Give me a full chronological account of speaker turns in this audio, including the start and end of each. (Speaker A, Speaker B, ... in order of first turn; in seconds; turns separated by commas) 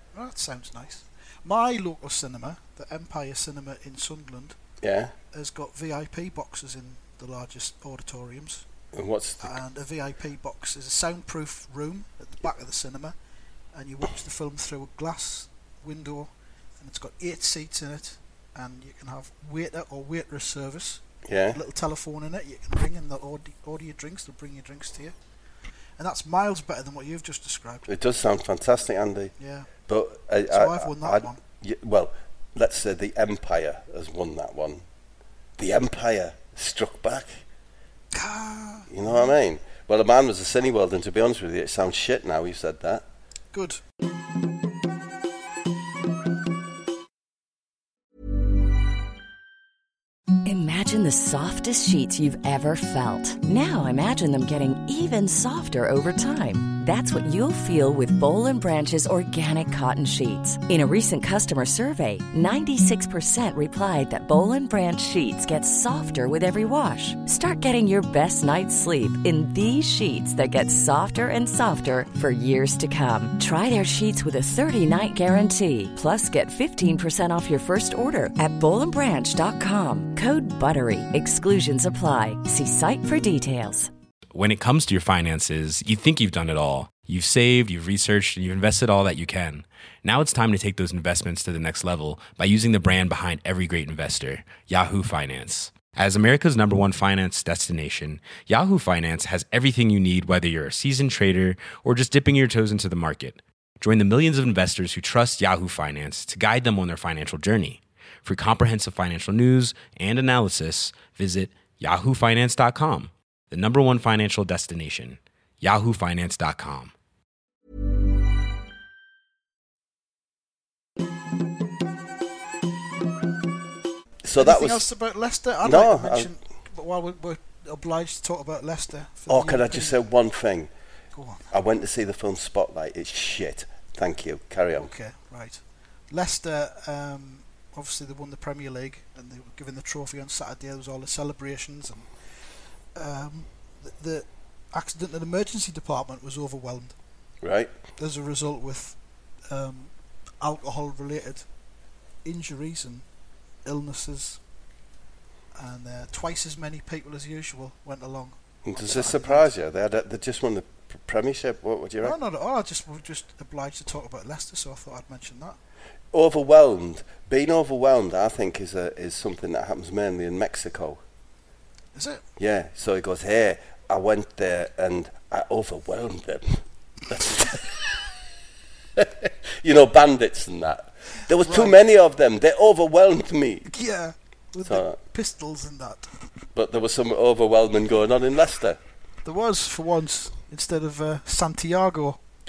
Speaker A: 0.1-4.6, Speaker B: 4.8-5.1, Speaker A: 5.3-8.7, Speaker B: 8.9-9.6, Speaker A: 9.4-13.2, Speaker A: 13.7-25.1, Speaker B: 21.2-21.6, Speaker A: 26.0-27.9, Speaker B: 27.9-29.3, Speaker A: 29.4-29.7, Speaker B: 29.9-34.8, Speaker A: 30.5-31.4, Speaker B: 35.6-37.4, Speaker A: 38.1-39.3, Speaker B: 38.9-43.0, Speaker A: 43.5-43.8, Speaker C: 50.5-83.9, Speaker D: 84.3-116.9, Speaker B: 124.2-124.9, Speaker A: 124.4-130.0, Speaker B: 125.6-126.3, Speaker B: 129.3-130.7, Speaker A: 131.2-131.5, Speaker B: 131.5-134.9, Speaker A: 134.8-142.1, Speaker A: 142.9-146.9, Speaker B: 147.4-147.7, Speaker A: 148.0-149.0, Speaker A: 149.5-151.4, Speaker A: 152.2-153.1, Speaker A: 153.7-154.4, Speaker A: 155.6-159.5, Speaker B: 158.7-162.2, Speaker A: 162.0-165.6, Speaker B: 166.1-171.0, Speaker A: 171.9-172.2, Speaker B: 172.4-178.1, Speaker B: 178.9-183.7, Speaker A: 181.4-181.8, Speaker A: 183.7-186.1, Speaker B: 184.7-185.0, Speaker B: 186.6-188.8, Speaker A: 189.2-192.2